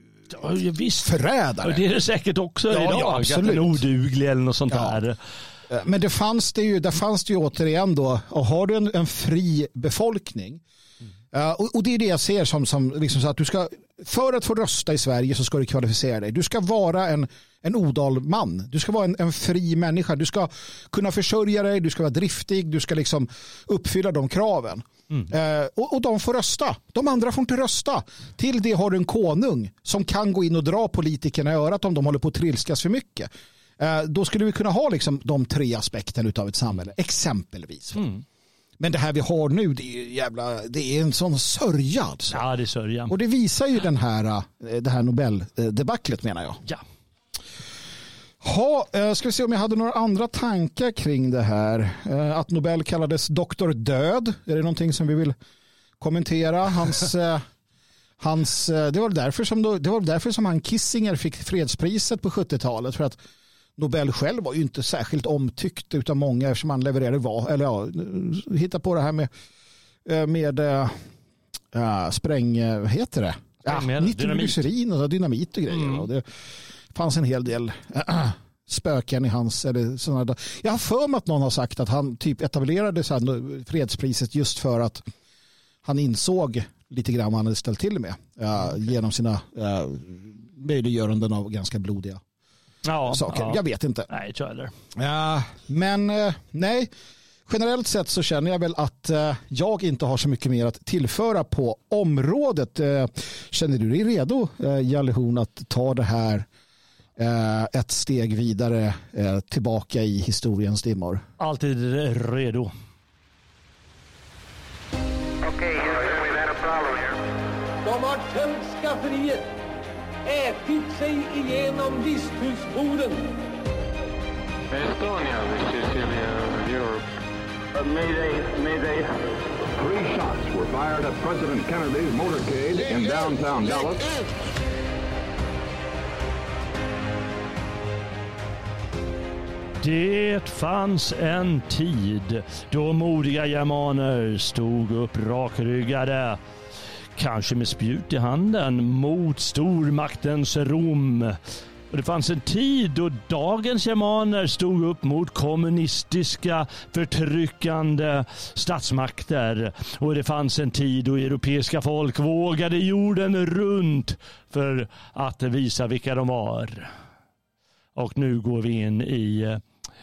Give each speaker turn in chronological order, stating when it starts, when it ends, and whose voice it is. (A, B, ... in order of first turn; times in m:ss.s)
0:00.3-0:05.2 A
0:01.0-0:01.8 B
0:02.7-0:03.8 B
0:04.7-0:05.0 B
0:05.7-0:10.6 B
0:11.3-0:38.0 B
0:38.0-0:38.2 A
0:38.8-0:42.4 B
0:42.3-0:43.1 A
0:43.1-0:46.6 B
0:48.4-0:55.4 B
0:56.0-0:57.4 B
0:58.2-1:03.2 B
1:03.8-1:09.3 B
1:10.0-1:11.0 B
1:11.7-1:25.0 B
1:13.6-1:14.6 A
1:15.7-1:16.0 A
1:25.8-1:32.2 B
1:32.8-1:34.7 A
1:33.1-1:34.1 B
1:34.9-1:36.9 B
1:37.5-1:46.4 B
1:47.2-1:51.2 B
1:51.4-1:52.7 A
1:55.4-1:57.2 C
1:57.8-1:59.5 D
2:00.2-2:03.3 D
2:04.7-2:07.0 C
2:07.7-2:09.2 C
2:09.7-2:14.1 E
2:19.8-2:26.4 A
2:27.2-2:31.4 A
2:31.9-2:46.9 A
2:48.0-2:49.6 A